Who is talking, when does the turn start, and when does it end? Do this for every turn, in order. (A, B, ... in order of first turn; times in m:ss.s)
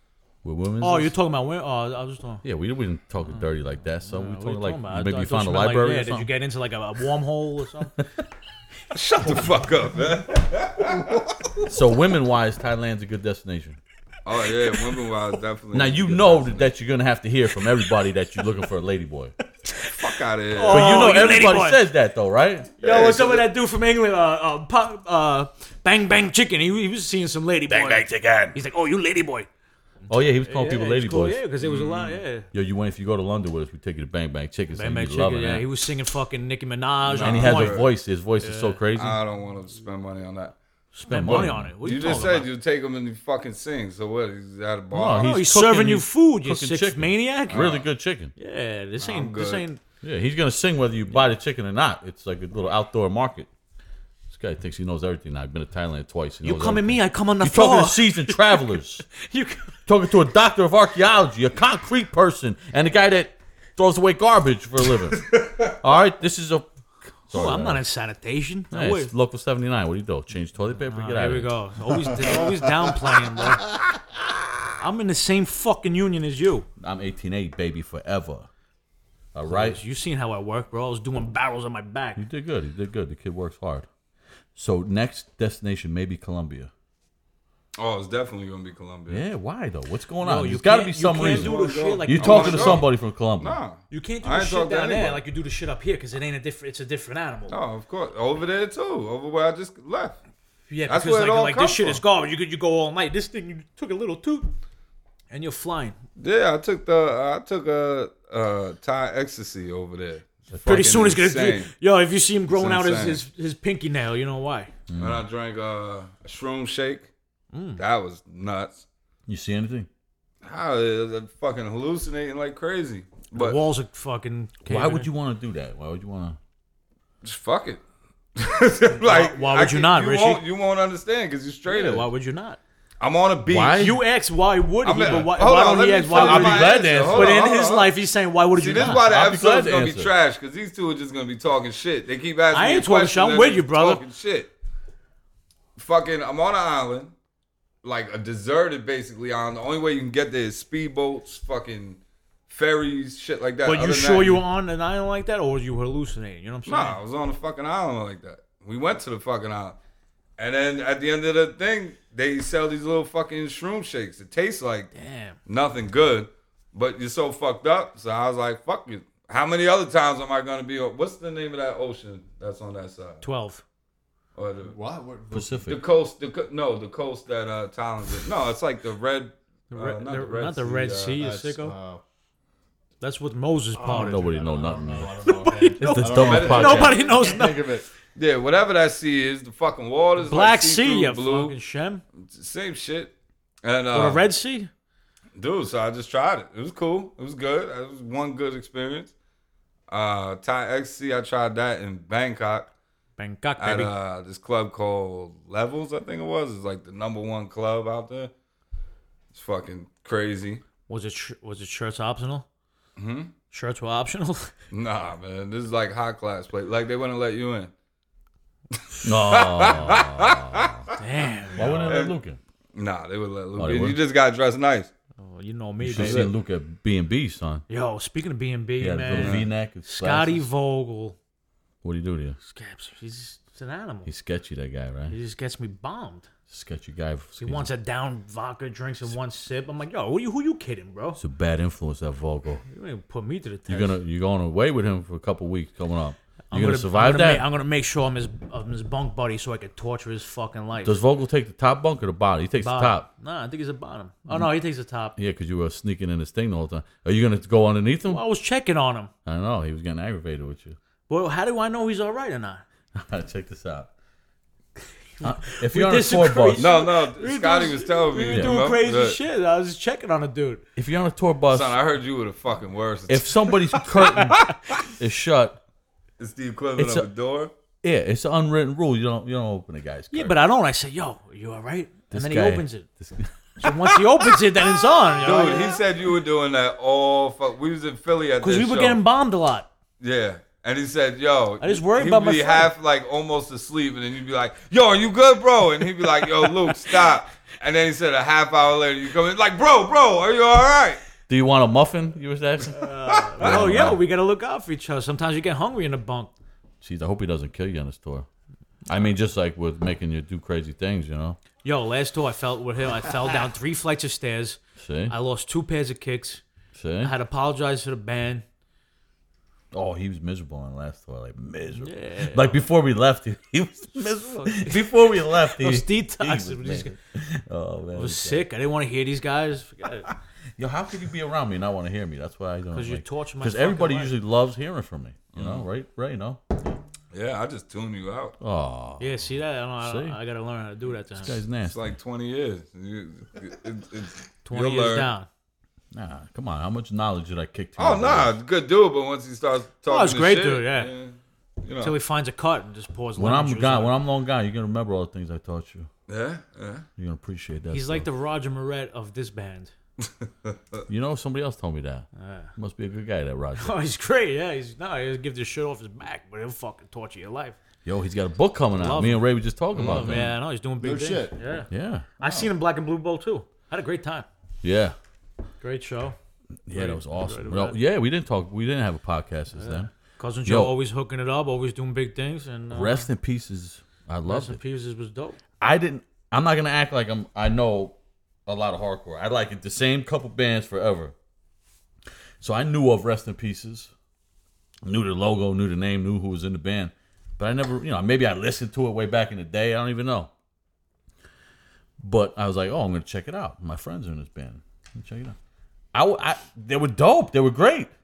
0:00.4-0:01.1 A
0:00.8-0:02.4 B
0:02.4-0:06.3 A
0:03.2-0:08.0 B
0:08.9-0:11.2 C
0:11.7-0:13.8 A
0:14.2-0:16.7 C
0:15.7-0:19.3 A
0:19.9-0:21.3 C
0:20.5-0:21.8 B
0:20.7-0:22.7 A
0:22.8-0:29.5 B
0:22.8-0:23.5 C
0:27.7-0:28.6 A
0:30.1-0:31.4 A
0:30.1-0:32.5 B
0:31.6-0:32.2 C
0:32.5-0:35.7 A
0:34.7-0:38.8 B
0:37.1-0:37.9 C
0:37.2-0:39.2 A
0:38.9-0:40.6 C
0:41.0-0:42.5 B
0:41.0-0:41.8 A
0:41.8-0:45.3 C
0:44.9-0:48.3 A
0:45.2-0:47.7 B
0:47.5-0:47.9 C
0:48.4-0:49.8 B
0:49.0-0:49.6 C
0:50.0-0:53.5 A
0:54.3-0:59.1 A
0:56.4-0:59.8 B
0:59.9-1:06.7 A
1:05.1-1:05.8 C
1:07.3-1:07.8 A
1:07.3-1:09.1 B
1:08.7-1:11.6 A
1:10.9-1:13.7 B
1:14.8-1:16.7 B
1:16.8-1:18.5 A
1:19.3-1:19.8 A
1:19.5-1:22.2 B
1:22.2-1:23.9 A
1:24.6-1:26.7 A
1:27.8-1:29.2 C
1:29.1-1:31.5 A
1:30.2-1:32.9 B
1:31.2-1:35.2 C
1:32.1-1:33.6 A
1:33.9-1:37.6 B
1:37.5-1:40.2 C
1:40.7-1:44.5 B
1:40.9-1:42.0 C
1:45.3-1:46.0 B
1:46.2-1:51.7 C
1:50.5-1:50.9 A
1:50.6-1:54.7 B
1:52.5-1:53.2 C
1:54.9-1:55.2 A
1:55.0-1:57.1 C
1:57.5-1:57.8 B
1:57.8-1:58.8 C
1:59.3-1:59.9 A
2:00.4-2:03.6 C
2:03.3-2:05.1 B
2:04.7-2:06.4 A
2:07.2-2:07.8 C
2:08.4-2:12.1 C
2:08.9-2:10.4 B
2:11.7-2:12.6 B
2:13.0-2:13.8 C
2:13.5-2:14.0 A
2:13.8-2:19.0 B
2:14.8-2:17.9 C
2:16.1-2:17.4 A
2:18.5-2:24.5 C
2:18.8-2:20.1 A
2:22.5-2:24.0 B
2:25.8-2:27.1 C
2:27.8-2:34.4 C
2:33.6-2:37.0 B
2:36.7-2:39.8 C
2:40.4-2:44.9 C
2:44.9-2:45.4 B
2:45.5-2:53.2 C
2:53.2-2:53.6 B
2:54.4-2:54.7 C
2:54.7-2:55.6 D
2:55.3-2:55.8 A
2:55.7-3:01.2 C
2:59.7-3:01.8 B
3:01.2-3:02.0 D
3:03.0-3:04.4 B
3:03.8-3:07.9 D
3:03.8-3:07.0 A
3:05.0-3:07.6 B
3:06.3-3:06.9 C
3:08.2-3:11.6 C
3:10.2-3:12.0 B
3:12.2-3:14.3 C
3:13.9-3:14.7 B
3:15.4-3:19.1 C
3:19.9-3:22.7 C
3:23.2-3:23.9 B
3:23.6-3:28.3 C
3:29.3-3:30.6 C
3:30.9-3:32.5 B
3:33.0-3:33.3 C
3:33.5-3:34.5 B
3:34.7-3:37.7 C
3:38.7-3:40.9 C
3:39.0-3:40.8 A
3:41.0-3:42.0 B
3:41.6-3:42.4 A
3:41.8-3:42.2 C
3:42.7-3:44.9 C
3:43.6-3:44.0 A
3:45.2-3:46.3 B
3:45.8-3:47.6 A
3:46.0-3:46.3 C
3:47.7-3:51.2 B
3:48.8-3:50.5 A
3:49.1-3:49.5 C
3:51.8-3:52.4 A
3:52.4-3:54.1 B
3:54.0-3:55.2 A
3:55.1-3:56.3 B
3:56.5-3:57.7 A
3:57.4-4:01.2 B
4:01.2-4:02.6 A
4:02.7-4:04.0 B
4:03.7-4:07.5 A
4:06.5-4:11.0 B
4:10.8-4:13.1 A
4:12.6-4:15.2 B
4:15.2-4:18.2 A
4:18.1-4:19.1 B
4:19.3-4:20.8 A
4:21.1-4:22.6 B
4:23.0-4:23.9 A
4:25.2-4:30.6 B
4:25.2-4:26.7 A
4:26.6-4:29.2 C
4:28.3-4:28.6 A
4:30.8-4:31.8 A
4:31.5-4:34.3 C
4:33.1-4:35.6 A
4:36.2-4:37.5 C
4:36.8-4:37.1 A
4:37.8-4:40.4 A
4:40.1-4:42.9 B
4:42.1-4:43.3 A
4:43.6-4:45.7 B
4:45.2-4:49.0 C
4:48.4-4:49.7 B
4:50.0-5:01.0 C
4:51.6-4:52.7 B
5:01.3-5:02.8 A
5:02.8-5:06.3 B
5:03.1-5:03.9 C
5:03.4-5:04.0 A
5:06.8-5:08.3 A
5:08.9-5:11.4 A
5:11.6-5:16.4 B
5:14.8-5:15.1 A
5:16.8-5:17.1 A
5:17.0-5:18.4 B
5:19.7-5:28.5 A
5:21.8-5:22.6 B
5:24.2-5:27.0 B
5:27.9-5:30.1 B
5:30.6-5:36.4 A
5:32.7-5:34.2 B
5:35.4-5:35.7 C
5:37.1-5:38.4 C
5:38.4-5:39.1 A
5:39.0-5:41.4 B
5:39.8-5:40.2 A
5:41.2-5:41.8 A
5:41.6-5:45.1 C
5:44.4-5:45.3 B
5:45.9-5:48.4 A
5:47.8-5:52.0 C
5:49.9-5:50.9 B
5:51.8-5:54.0 B
5:53.2-5:55.9 A
5:56.1-5:56.9 C
5:57.0-5:58.1 A
5:57.7-5:59.7 B
6:00.0-6:00.8 C
6:00.9-6:03.8 A
6:02.2-6:02.5 B
6:03.6-6:07.6 B
6:07.8-6:10.4 A
6:08.8-6:14.3 B
6:09.7-6:10.1 C
6:10.8-6:11.4 D
6:11.7-6:12.1 A
6:12.2-6:12.5 D
6:14.6-6:15.0 A
6:15.6-6:16.2 B
6:16.7-6:19.9 A
6:16.7-6:17.8 B
6:19.6-6:23.1 B
6:20.4-6:20.8 A
6:22.7-6:24.6 A
6:24.3-6:25.4 B
6:25.6-6:31.1 A
6:32.4-6:33.9 A
6:34.8-6:40.3 A
6:42.0-6:45.4 A
6:45.9-6:47.9 A